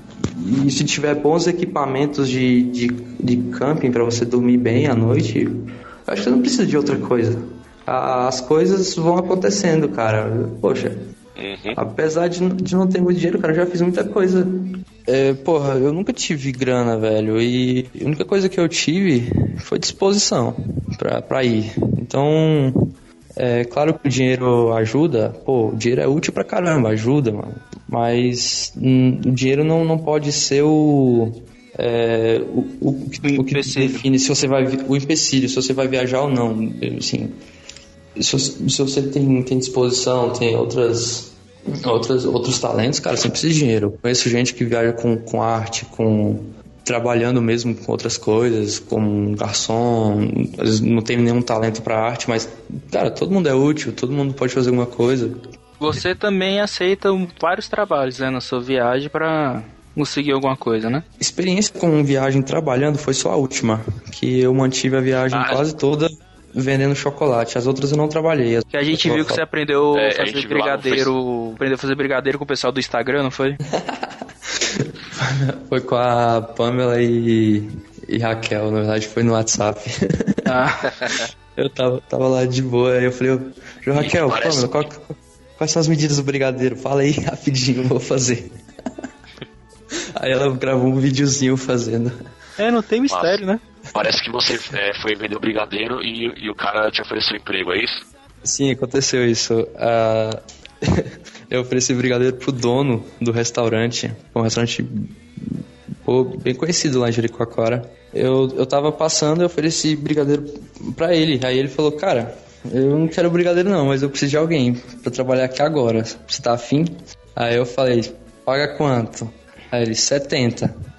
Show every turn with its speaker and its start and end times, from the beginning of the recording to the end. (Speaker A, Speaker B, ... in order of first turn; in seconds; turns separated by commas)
Speaker A: 0.3-11.1, Speaker B: 11.4-11.8, Speaker A: 11.7-37.4, Speaker C: 33.2-34.0, Speaker A: 38.2-55.4, Speaker C: 55.8-61.0, Speaker A: 61.2-69.4, Speaker B: 65.3-65.6, Speaker C: 68.7-73.6, Speaker B: 69.9-71.1, Speaker A: 73.7-80.4, Speaker C: 80.5-81.2, Speaker A: 81.6-88.6, Speaker B: 84.0-84.9, Speaker A: 90.2-92.2, Speaker C: 92.6-93.6, Speaker B: 93.1-93.4, Speaker B: 93.9-98.0, Speaker A: 98.4-120.7